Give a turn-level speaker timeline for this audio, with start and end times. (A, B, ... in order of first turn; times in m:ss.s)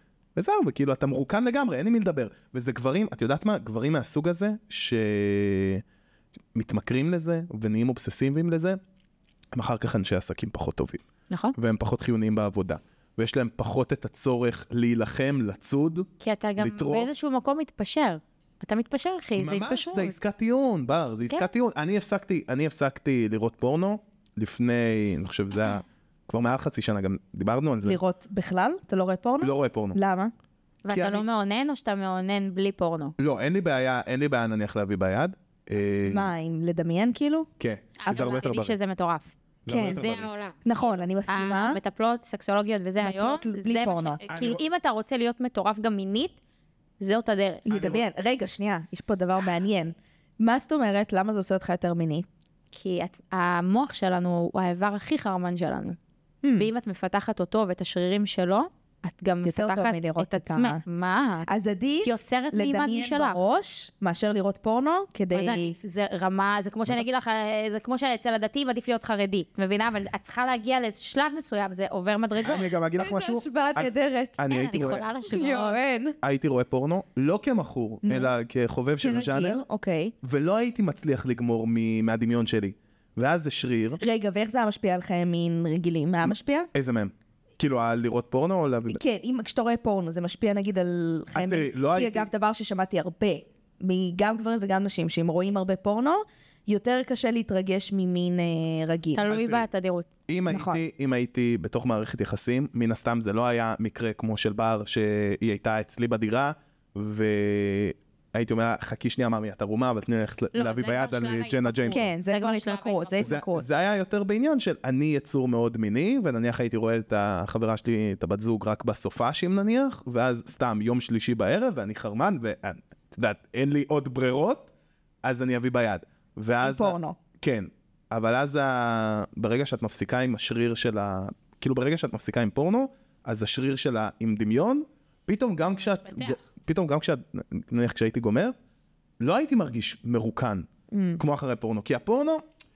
0:00.4-0:05.8 A
0:06.5-0:08.8 A
0:09.5-0:11.0 A
0:11.6-0:17.1 A
0:16.2-0:20.2 B
0:19.4-0:28.0 A
0:27.8-0:30.3 C
0:29.4-0:30.0 A
0:30.8-0:33.1 B
0:30.9-0:31.2 A
0:33.2-0:36.3 A
0:36.1-0:37.5 C
0:37.6-0:38.8 A
0:38.0-0:40.6 B
0:39.6-0:40.3 A
0:39.7-0:40.0 C
0:40.6-0:41.8 C
0:41.3-0:46.4 B
0:43.0-0:44.2 C
0:44.3-0:44.6 A
0:47.0-0:47.6 B
0:47.6-0:52.3 C
0:47.7-0:48.0 A
0:52.7-0:56.0 B
0:56.4-0:56.7 C
0:56.5-1:01.5 B
0:59.4-1:00.8 C
1:01.5-1:05.7 C
1:02.0-1:03.4 B
1:05.3-1:12.7 B
1:12.4-1:15.0 A
1:13.0-1:14.4 C
1:14.5-1:15.8 B
1:15.2-1:16.2 C
1:16.2-1:19.6 A
1:18.0-1:18.3 C
1:19.0-1:20.1 C
1:20.2-1:24.0 A
1:24.0-1:26.7 C
1:26.2-1:29.0 A
1:28.9-1:39.3 C
1:31.3-1:32.3 A
1:39.1-1:40.1 B
1:39.3-1:39.6 A
1:40.3-1:52.1 A
1:40.5-1:40.8 C
1:50.5-1:53.3 B
1:51.9-1:53.7 C
1:53.2-2:04.7 A
2:05.2-2:18.5 A
2:06.6-2:07.2 C
2:16.1-2:16.4 B
2:19.2-2:20.7 A
2:20.9-2:21.2 C
2:21.2-2:22.4 A